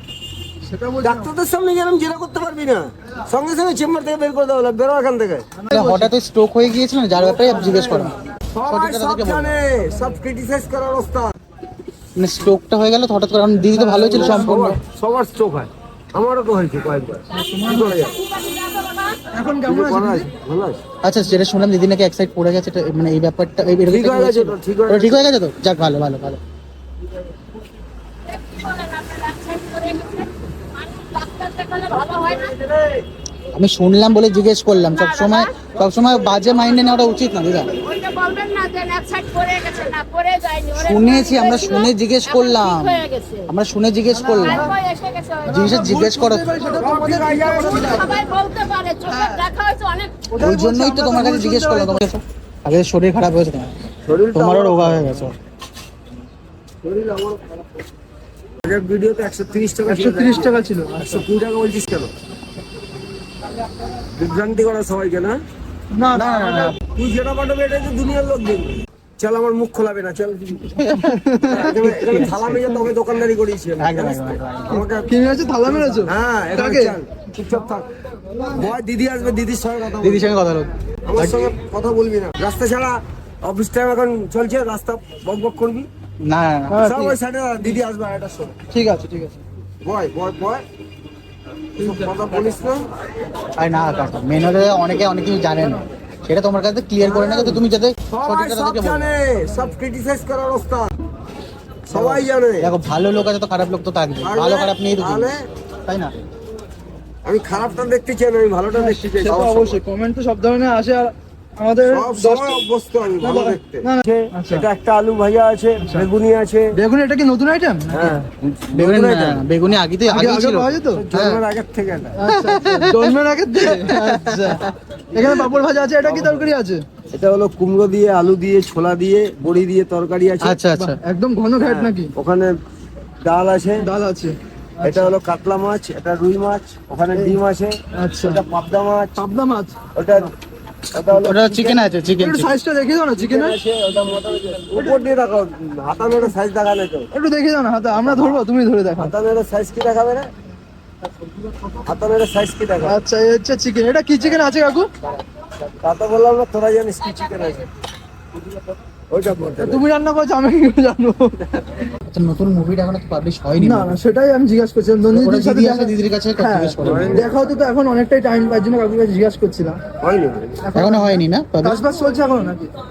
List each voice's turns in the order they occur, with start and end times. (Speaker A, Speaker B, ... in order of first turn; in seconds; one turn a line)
Speaker A: 0.6-1.3
Speaker B: 1.0-5.5
Speaker A: 5.6-6.1
Speaker C: 5.7-9.6
Speaker B: 7.1-11.3
Speaker C: 12.2-14.8
Speaker A: 13.7-14.6
Speaker B: 14.1-18.2
Speaker A: 17.3-18.1
Speaker D: 18.1-19.2
Speaker A: 19.3-20.3
Speaker B: 19.6-20.8
Speaker C: 21.0-26.4
Speaker B: 23.9-25.3
Speaker D: 28.3-32.6
Speaker C: 33.5-37.7
Speaker D: 34.9-35.5
Speaker D: 37.8-43.5
Speaker C: 40.8-44.7
Speaker A: 44.1-44.7
Speaker D: 44.3-45.7
Speaker C: 45.5-46.6
Speaker A: 45.5-48.3
Speaker B: 46.7-48.2
Speaker D: 47.5-50.3
Speaker A: 49.1-49.5
Speaker A: 50.3-52.0
Speaker C: 50.4-53.8
Speaker B: 54.0-55.3
Speaker C: 54.3-55.3
Speaker B: 56.8-57.6
Speaker B: 58.6-62.1
Speaker A: 59.9-61.2
Speaker B: 64.1-65.4
Speaker A: 65.9-66.7
Speaker C: 66.1-66.7
Speaker B: 66.9-70.8
Speaker C: 70.8-72.8
Speaker A: 70.8-71.7
Speaker B: 71.4-75.1
Speaker C: 73.8-74.8
Speaker A: 75.0-77.0
Speaker B: 75.9-77.9
Speaker B: 78.5-80.3
Speaker C: 80.0-81.5
Speaker B: 81.0-85.9
Speaker C: 86.2-86.8
Speaker A: 86.7-87.2
Speaker B: 86.8-88.5
Speaker A: 88.7-89.4
Speaker B: 89.8-90.6
Speaker B: 91.8-92.9
Speaker C: 93.6-99.2
Speaker B: 97.0-100.9
Speaker B: 101.9-102.7
Speaker C: 101.9-106.1
Speaker B: 104.2-105.4
Speaker B: 107.2-109.8
Speaker A: 108.7-112.6
Speaker B: 111.8-116.7
Speaker A: 113.2-114.7
Speaker A: 115.8-116.1
Speaker A: 116.8-118.2
Speaker B: 117.9-119.4
Speaker C: 118.7-121.4
Speaker A: 120.1-121.0
Speaker B: 120.9-122.2
Speaker A: 122.2-126.8
Speaker C: 122.3-124.7
Speaker B: 126.0-126.5
Speaker B: 127.1-130.6
Speaker C: 130.4-131.0
Speaker A: 130.7-132.1
Speaker B: 131.6-132.6
Speaker B: 133.2-133.9
Speaker A: 133.8-135.1
Speaker B: 134.8-139.2
Speaker A: 137.9-138.4
Speaker A: 139.2-139.8
Speaker B: 139.9-140.3
Speaker B: 140.9-141.8
Speaker C: 141.1-142.5
Speaker A: 142.2-143.6
Speaker B: 143.1-147.1
Speaker A: 147.1-149.1
Speaker B: 147.9-148.4
Speaker B: 149.0-150.3
Speaker B: 151.8-153.0
Speaker A: 152.8-154.9
Speaker B: 155.8-157.7
Speaker B: 159.1-159.8
Speaker A: 159.6-161.4
Speaker C: 162.1-164.0
Speaker A: 163.6-169.8
Speaker C: 165.1-167.3
Speaker B: 166.8-167.6
Speaker B: 170.0-170.6
Speaker A: 170.6-172.7
Speaker C: 170.7-171.9